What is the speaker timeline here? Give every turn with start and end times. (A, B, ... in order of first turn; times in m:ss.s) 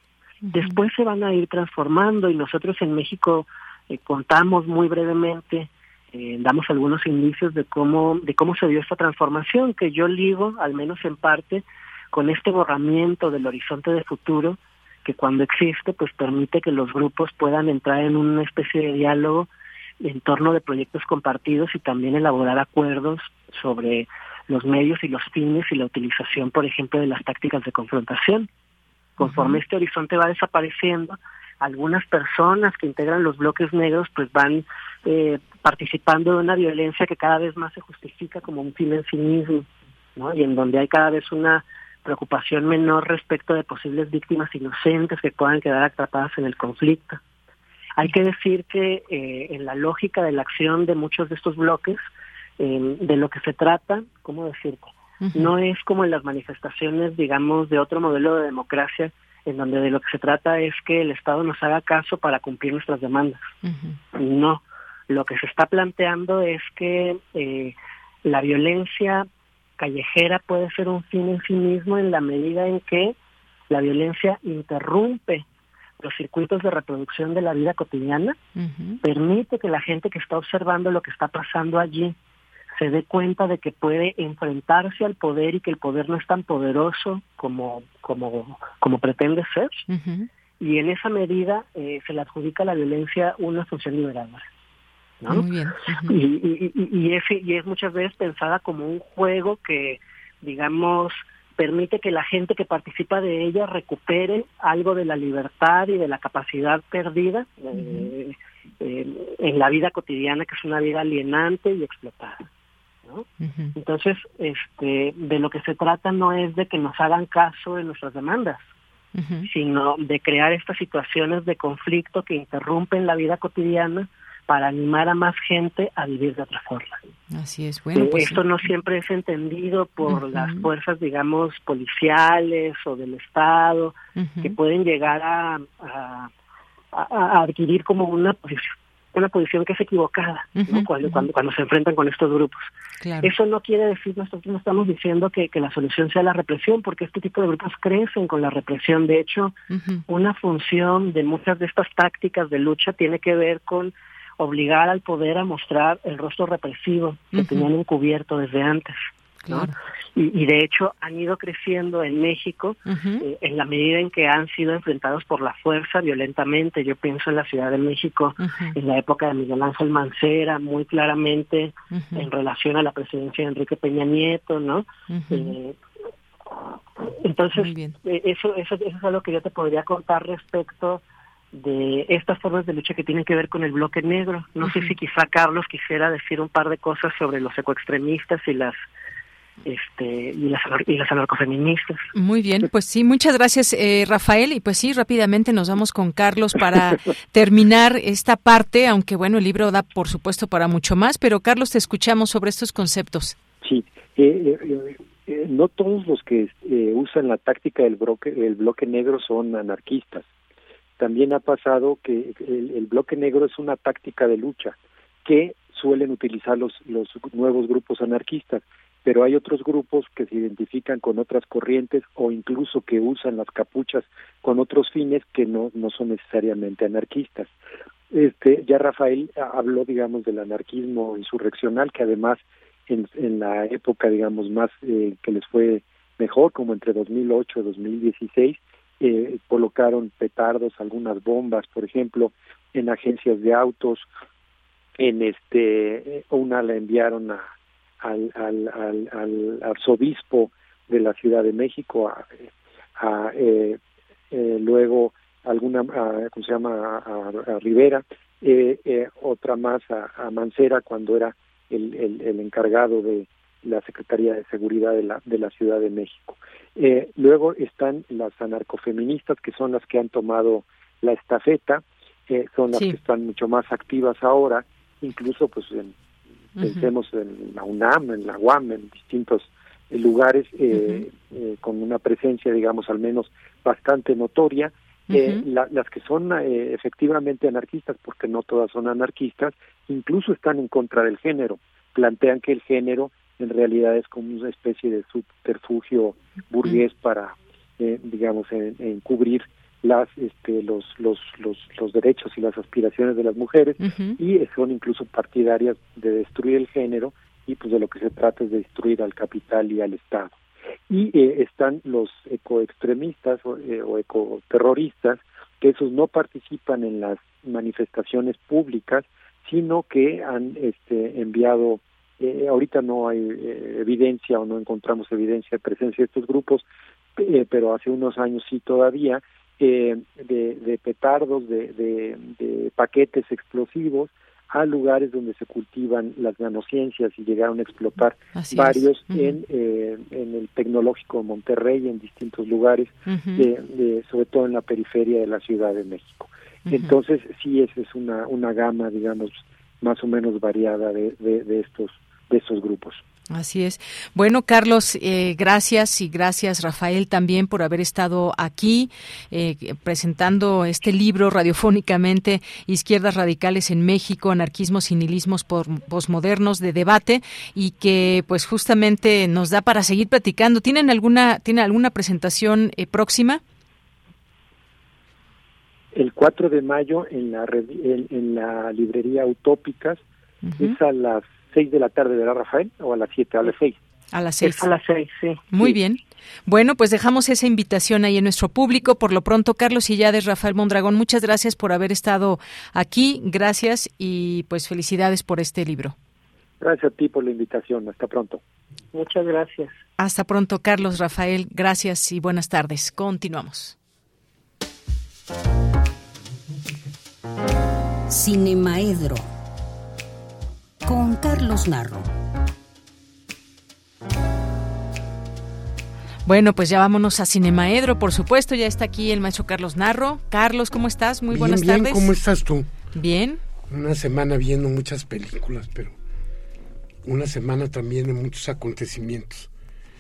0:00.4-0:00.8 A
0:00.5-0:19.5 B
0:20.0-0:28.5 B
0:29.2-0:47.2 B
0:29.2-0:29.6 A
0:48.0-0:52.0 B
0:52.6-1:03.5 B
0:55.2-0:55.5 A
1:03.6-1:04.0 A
1:04.2-1:09.3 B
1:09.8-1:13.2 B
1:13.7-1:15.4 B
1:16.0-1:18.4 B
1:18.6-1:19.0 A
1:19.0-1:22.2 B
1:22.8-1:29.8 B
1:29.9-1:30.3 A
1:30.6-1:34.5 B
1:35.3-1:36.2 A
1:36.0-1:52.5 B
1:47.8-1:48.1 A
1:53.1-1:58.6 B
1:53.4-1:53.8 A
1:59.2-1:59.5 A
1:59.5-2:07.0 B
2:07.3-2:08.4 A
2:08.0-2:16.3 B
2:10.1-2:10.7 A
2:14.2-2:14.6 A
2:16.9-2:22.7 B
2:20.6-2:21.3 A
2:23.0-2:23.3 A
2:23.2-2:29.6 B
2:29.7-2:30.0 A
2:30.1-2:39.0 B
2:37.3-2:37.7 A
2:39.5-2:39.8 A
2:39.5-2:55.8 B
2:42.9-2:43.2 A
2:48.4-2:48.8 A
2:51.9-2:52.3 A
2:55.1-2:55.6 A
2:57.2-3:01.0 B
2:57.6-2:58.0 A
3:01.5-3:08.8 B
3:04.6-3:05.0 A
3:09.6-3:12.1 B
3:12.1-3:23.4 A
3:23.6-3:30.3 C
3:31.0-3:47.5 C
3:48.1-4:04.1 C
4:05.0-4:07.5 C
4:08.0-4:13.8 C
4:14.3-4:36.0 C
4:36.6-4:36.9 A
4:36.6-5:10.4 C
4:40.7-4:41.0 A
4:45.1-4:45.4 A
5:03.8-5:04.2 A
5:10.9-5:26.6 C
5:27.2-5:53.0 C
5:38.3-5:39.4 A
5:43.1-5:43.5 A
5:46.7-5:47.0 A
5:53.3-6:13.4 A
6:16.0-6:20.0 C
6:20.4-6:20.8 A
6:20.6-6:23.8 C
6:24.1-6:24.7 A
6:24.4-6:25.8 B
6:25.5-6:36.0 A
6:36.6-6:38.4 C
6:38.9-6:39.8 B
6:40.0-6:43.8 A
6:48.1-6:49.3 D
6:50.8-6:52.1 D
6:56.3-7:02.1 A
7:01.3-7:02.7 E
7:02.9-7:03.4 A
7:03.7-7:06.0 E
7:07.0-7:09.5 E